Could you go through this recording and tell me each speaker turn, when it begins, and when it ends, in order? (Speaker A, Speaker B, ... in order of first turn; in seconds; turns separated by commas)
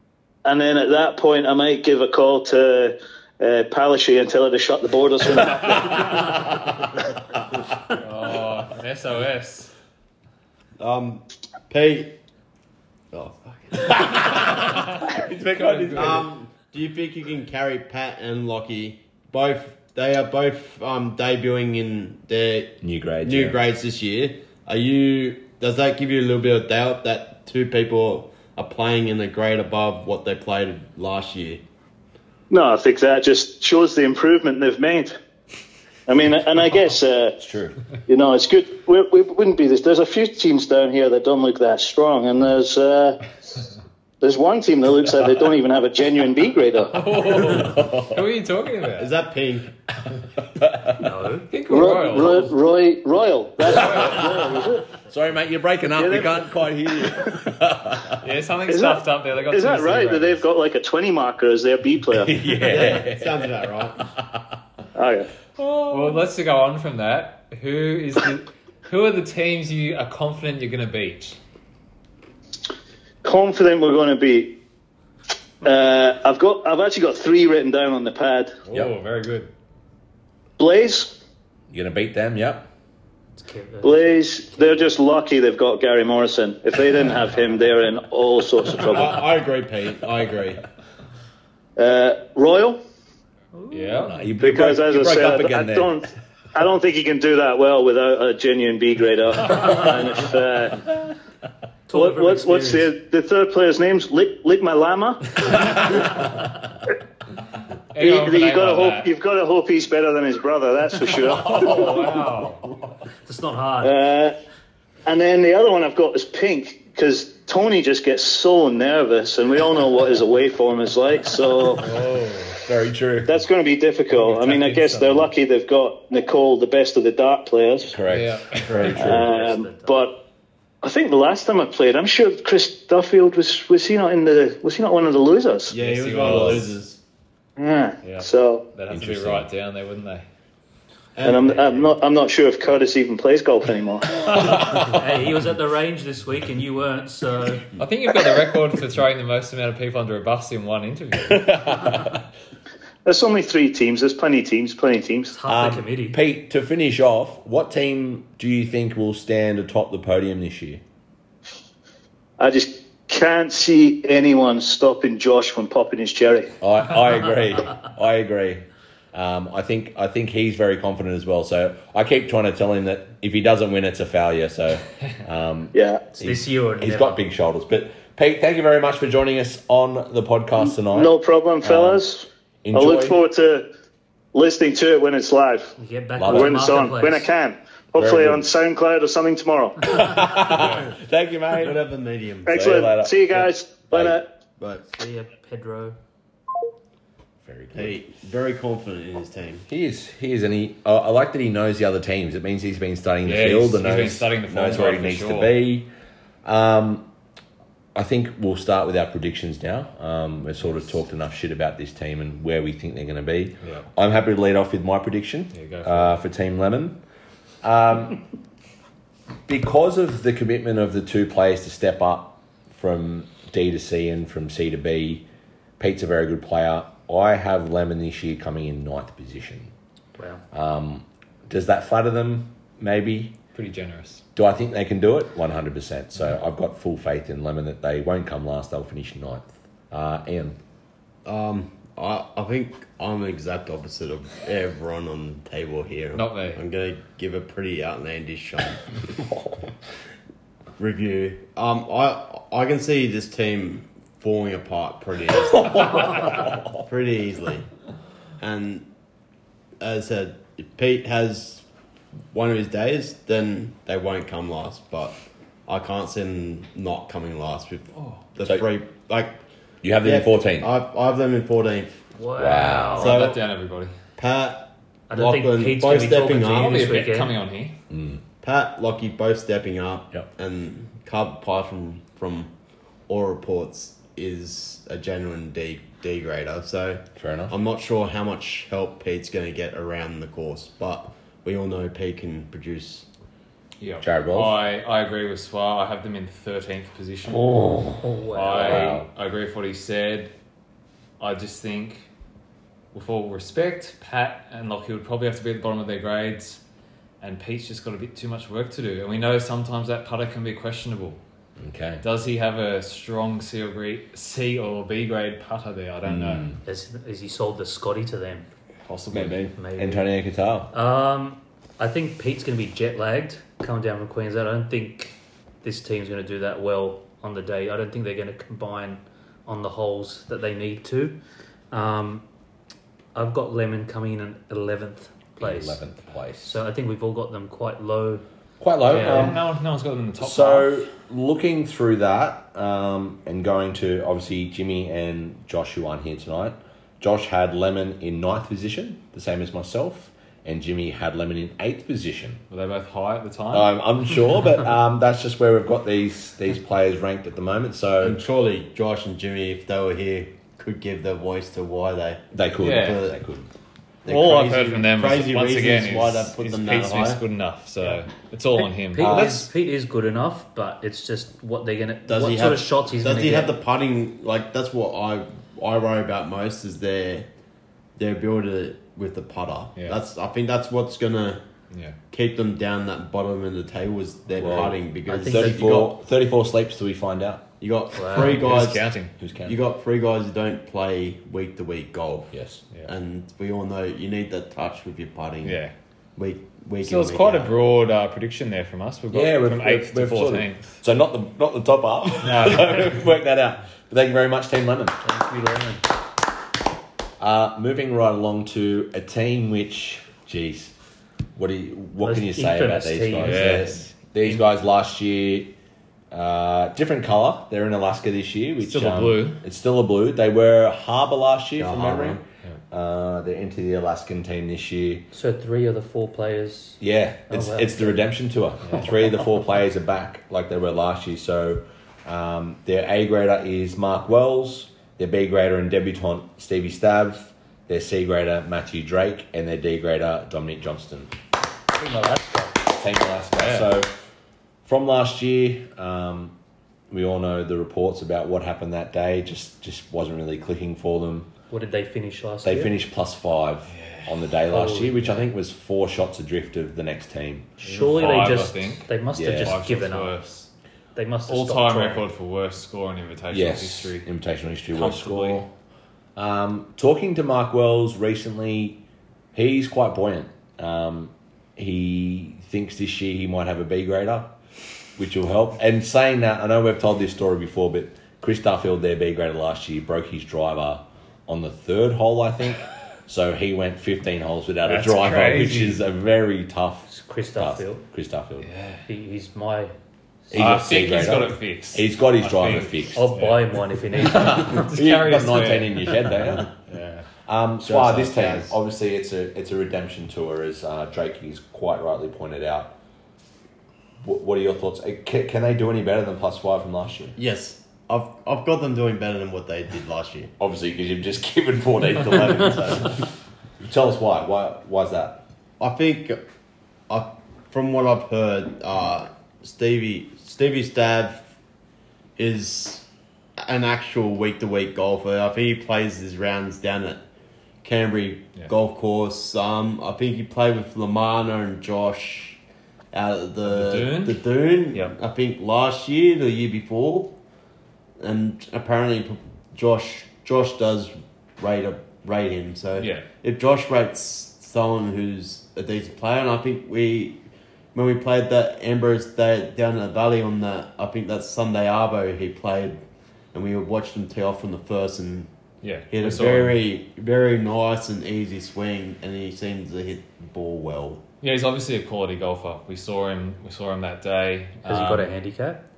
Speaker A: 0.5-6.2, Speaker B: 5.8-6.7, Speaker C: 7.9-9.7, Speaker D: 10.8-12.2, Speaker D: 13.1-14.4, Speaker B: 13.8-16.3, Speaker C: 15.5-16.2, Speaker D: 15.9-31.6, Speaker B: 22.8-23.6, Speaker A: 32.5-35.2, Speaker A: 36.1-37.4, Speaker B: 37.4-37.8, Speaker A: 38.1-43.2, Speaker A: 44.2-47.1, Speaker C: 46.9-49.1, Speaker B: 47.5-48.2, Speaker D: 49.0-49.7, Speaker B: 50.5-51.1, Speaker E: 51.0-51.5, Speaker C: 51.5-52.5, Speaker A: 51.7-55.0, Speaker C: 53.7-54.2, Speaker B: 54.0-54.4, Speaker B: 55.0-58.2, Speaker A: 56.0-56.4, Speaker C: 58.2-60.4, Speaker A: 58.7-62.4, Speaker B: 62.1-63.5, Speaker D: 62.6-64.0, Speaker B: 64.1-64.5, Speaker A: 65.0-65.3, Speaker B: 65.6-66.2, Speaker C: 65.9-71.4, Speaker A: 73.2-74.5, Speaker A: 75.6-78.6, Speaker C: 78.7-79.5, Speaker A: 80.6-81.2, Speaker B: 81.7-82.7, Speaker E: 83.4-84.8, Speaker A: 83.8-89.2, Speaker D: 88.8-90.6, Speaker A: 91.8-92.8, Speaker E: 93.5-94.2, Speaker C: 93.7-94.2, Speaker B: 94.1-95.9, Speaker A: 94.4-100.9, Speaker E: 101.9-102.9, Speaker A: 101.9-106.3, Speaker C: 107.9-109.1, Speaker A: 108.0-112.1, Speaker C: 111.4-112.7, Speaker E: 113.2-114.0, Speaker A: 113.8-114.3, Speaker A: 115.1-121.9, Speaker C: 121.8-122.6, Speaker B: 122.6-123.4, Speaker A: 123.2-128.0, Speaker C: 124.1-125.3, Speaker B: 127.8-129.2, Speaker C: 128.1-129.0, Speaker D: 128.6-129.3, Speaker A: 128.9-130.2, Speaker E: 129.0-130.1, Speaker A: 130.8-135.7, Speaker D: 135.7-137.0, Speaker C: 135.7-136.8, Speaker B: 136.2-136.6, Speaker A: 137.6-138.7, Speaker C: 138.0-140.3, Speaker B: 138.9-139.5, Speaker D: 141.2-141.7, Speaker A: 141.2-144.6, Speaker B: 144.4-144.8, Speaker E: 144.7-147.7, Speaker C: 147.8-152.0, Speaker B: 151.3-152.2, Speaker A: 153.1-155.4, Speaker E: 155.3-156.2, Speaker B: 155.5-160.8, Speaker A: 162.4-166.5, Speaker B: 166.6-182.0, Speaker A: 175.7-176.0, Speaker E: 176.1-177.2, Speaker A: 180.9-183.7, Speaker B: 182.6-183.2, Speaker A: 184.3-185.7, Speaker E: 185.8-187.3, Speaker B: 186.2-186.6, Speaker A: 186.3-190.0, Speaker B: 188.0-188.5, Speaker B: 189.9-191.8, Speaker C: 190.6-190.9, Speaker D: 191.5-192.6, Speaker A: 192.5-194.3, Speaker B: 192.5-194.2, Speaker D: 194.6-194.8, Speaker E: 194.9-196.0, Speaker B: 197.4-198.0, Speaker D: 197.7-199.7, Speaker B: 199.7-205.9, Speaker C: 203.2-205.6, Speaker B: 206.4-207.1, Speaker B: 207.9-217.0, Speaker C: 213.6-213.9, Speaker C: 215.5-216.2, Speaker B: 217.6-218.2, Speaker B: 219.5-225.2, Speaker B: 225.8-229.7, Speaker E: 230.2-230.4, Speaker B: 230.5-233.4, Speaker C: 233.6-234.2, Speaker B: 234.3-240.6, Speaker D: 241.2-249.0, Speaker C: 246.2-246.6, Speaker D: 250.8-257.7, Speaker D: 258.4-258.9, Speaker D: 259.8-261.6, Speaker D: 262.3-269.4, Speaker B: 269.8-270.7, Speaker D: 270.0-272.0, Speaker E: 272.1-273.1, Speaker B: 272.4-273.2, Speaker C: 273.0-273.9, Speaker D: 273.0-273.4, Speaker D: 274.2-277.0, Speaker E: 275.1-277.4, Speaker C: 276.4-277.8, Speaker B: 277.9-278.2, Speaker D: 278.4-282.5, Speaker D: 283.1-293.1, Speaker B: 287.2-287.6, Speaker C: 293.8-297.6, Speaker B: 294.0-294.6, Speaker B: 297.3-299.1, Speaker E: 298.0-298.9, Speaker C: 298.3-300.3, Speaker C: 301.2-302.1, Speaker C: 302.9-306.6, Speaker C: 307.2-311.2, Speaker B: 311.6-312.0, Speaker C: 312.0-316.5, Speaker B: 316.1-316.6, Speaker E: 316.6-318.5, Speaker C: 318.9-319.5, Speaker B: 319.1-320.7, Speaker E: 319.6-320.1, Speaker E: 320.7-331.2, Speaker E: 331.7-332.2, Speaker E: 333.1-335.8, Speaker B: 335.4-336.6, Speaker E: 336.4-338.2, Speaker B: 338.6-339.4, Speaker E: 338.9-339.4, Speaker C: 338.9-340.8, Speaker B: 340.2-352.4, Speaker C: 352.5-353.7, Speaker B: 353.5-358.2, Speaker D: 358.0-363.2, Speaker B: 362.3-363.5, Speaker C: 362.6-363.0, Speaker D: 364.1-367.2, Speaker C: 364.1-369.4, Speaker E: 368.9-373.5, Speaker B: 369.0-369.5, Speaker D: 372.1-377.3, Speaker D: 378.0-381.4, Speaker C: 381.7-382.0, Speaker D: 382.1-385.9, Speaker B: 384.4-387.5, Speaker E: 385.1-385.6, Speaker D: 387.6-388.9, Speaker E: 388.0-388.4, Speaker C: 388.1-389.1, Speaker B: 389.2-389.6, Speaker D: 389.4-395.6, Speaker B: 392.3-392.6, Speaker C: 395.4-395.7, Speaker D: 396.2-397.5, Speaker C: 396.8-400.8, Speaker B: 399.1-405.0, Speaker C: 402.2-403.0, Speaker E: 405.0-405.9, Speaker B: 407.2-410.7, Speaker B: 411.4-415.5, Speaker E: 412.0-413.7, Speaker C: 413.2-414.4, Speaker B: 416.1-425.1, Speaker C: 418.6-419.4, Speaker D: 421.6-422.2, Speaker E: 425.1-428.1, Speaker B: 426.8-441.1, Speaker E: 441.8-442.6, Speaker B: 442.7-443.9, Speaker C: 443.4-443.7, Speaker B: 444.6-446.4, Speaker B: 446.9-451.3, Speaker E: 451.5-452.7, Speaker B: 452.4-457.5, Speaker C: 453.7-454.2, Speaker E: 454.5-455.2, Speaker E: 457.6-460.2, Speaker C: 457.6-460.5, Speaker B: 459.1-459.6, Speaker E: 460.9-462.1, Speaker C: 461.3-464.1, Speaker B: 463.3-465.5, Speaker C: 464.7-465.4, Speaker B: 466.2-468.8, Speaker B: 469.3-474.4, Speaker B: 475.0-488.5, Speaker C: 484.7-485.8, Speaker E: 486.9-487.8, Speaker C: 488.4-488.9, Speaker E: 488.9-489.7, Speaker B: 490.3-493.1, Speaker C: 490.3-497.1, Speaker E: 492.9-494.7, Speaker B: 494.1-496.5, Speaker B: 497.3-502.8, Speaker D: 497.6-498.5, Speaker B: 504.0-507.2, Speaker D: 507.2-510.3, Speaker B: 510.4-513.0, Speaker D: 512.0-513.0, Speaker B: 513.6-515.2, Speaker D: 515.6-516.2, Speaker D: 516.9-521.3, Speaker D: 522.2-522.9, Speaker D: 523.4-527.0, Speaker D: 527.6-532.4, Speaker D: 532.9-537.1, Speaker C: 533.5-534.9, Speaker D: 538.0-547.2, Speaker C: 542.8-543.1, Speaker D: 547.7-555.3, Speaker C: 555.6-556.6, Speaker D: 555.9-561.0, Speaker C: 561.2-565.1, Speaker E: 564.7-565.6